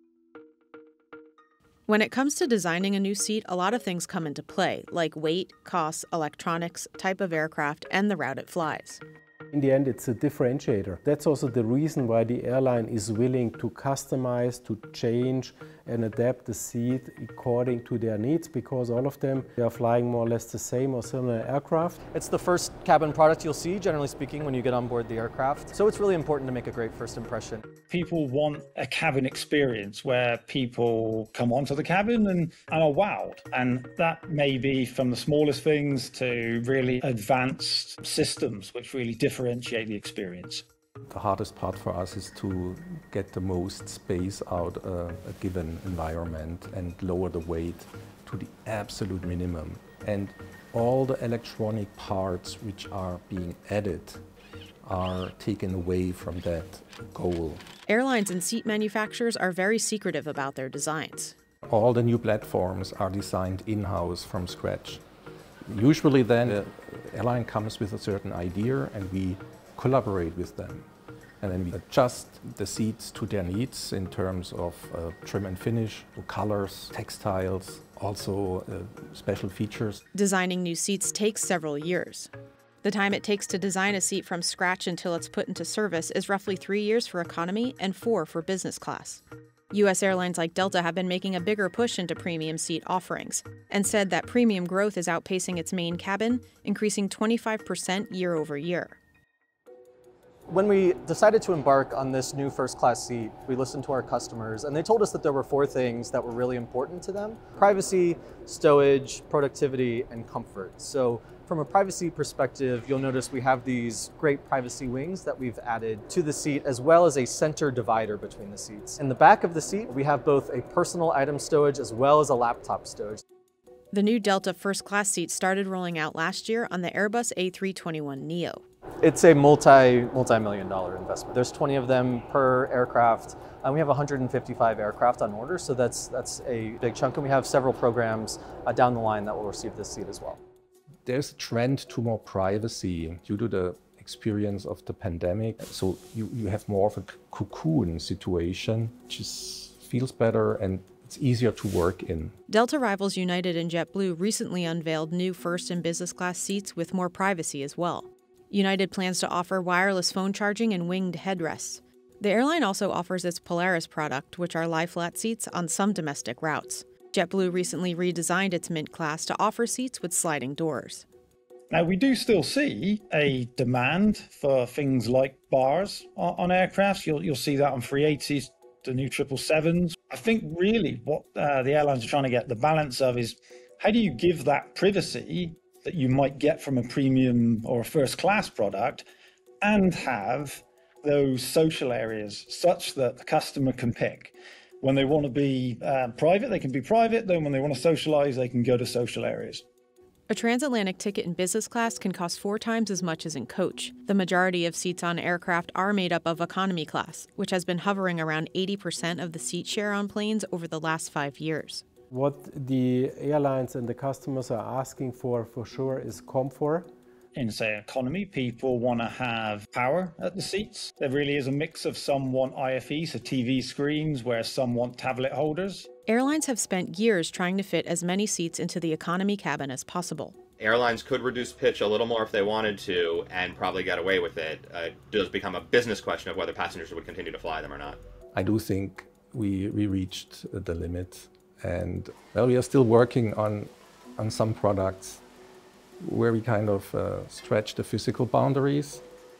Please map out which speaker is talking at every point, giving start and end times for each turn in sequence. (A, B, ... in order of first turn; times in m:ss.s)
0:01.9-0:09.0 A
0:09.5-0:22.0 B
0:22.1-0:27.6 C
0:27.9-0:40.6 D
0:41.1-0:54.2 E
0:54.8-0:57.6 E
0:57.9-1:01.3 A
1:01.7-1:05.0 E
1:05.7-1:10.8 E
1:11.4-1:20.0 E
1:20.1-1:22.3 A
1:22.8-1:39.0 A
1:40.5-2:03.2 C
2:03.9-2:08.6 A
2:09.0-2:20.4 C
2:21.0-2:32.3 E
2:32.5-2:51.0 A
2:51.7-3:09.0 D
3:09.6-3:19.6 D
3:20.3-3:31.8 A
3:32.1-3:36.9 B
3:37.3-3:45.9 D
3:46.1-3:50.4 A
3:50.6-3:58.0 F
3:58.3-4:05.2 E
4:06.0-4:09.0 E